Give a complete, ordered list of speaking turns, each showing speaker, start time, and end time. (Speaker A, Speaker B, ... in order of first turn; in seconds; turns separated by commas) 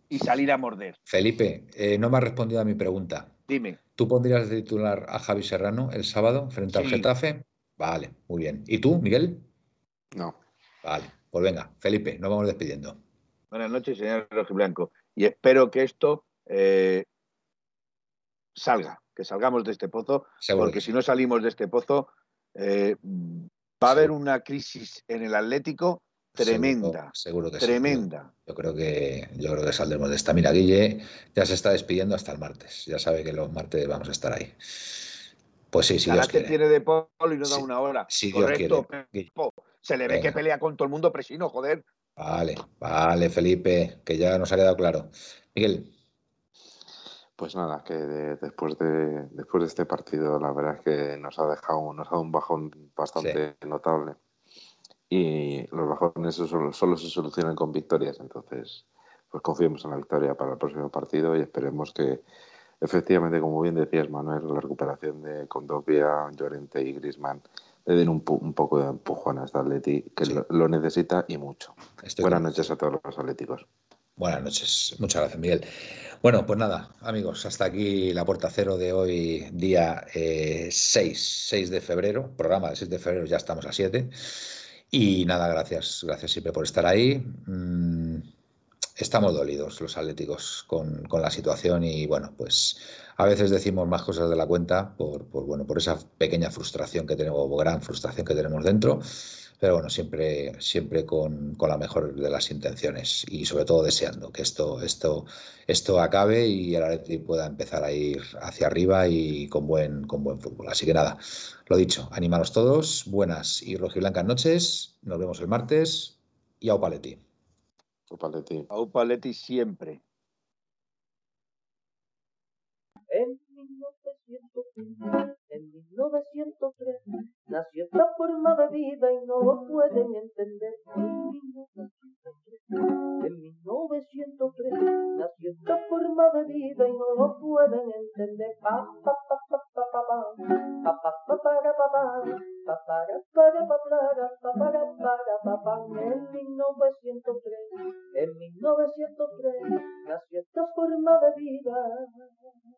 Speaker A: 0.1-0.9, Speaker B: 1.1-3.3, Speaker A: 3.5-3.8, Speaker B: 4.0-9.5, Speaker A: 6.7-7.1, Speaker B: 10.8-13.0, Speaker A: 13.5-17.1, Speaker A: 18.5-28.3, Speaker B: 20.4-20.9, Speaker B: 26.3-34.6, Speaker B: 35.7-36.6, Speaker A: 36.0-41.8, Speaker B: 37.4-39.3, Speaker B: 40.1-40.4, Speaker B: 42.2-45.9, Speaker C: 47.4-54.2, Speaker C: 55.1-62.2, Speaker C: 62.8-73.7, Speaker B: 72.0-72.7, Speaker B: 74.2-75.7, Speaker B: 76.2-88.3, Speaker B: 89.0-117.2, Speaker C: 118.1-118.7, Speaker A: 118.7-120.0, Speaker D: 123.1-152.3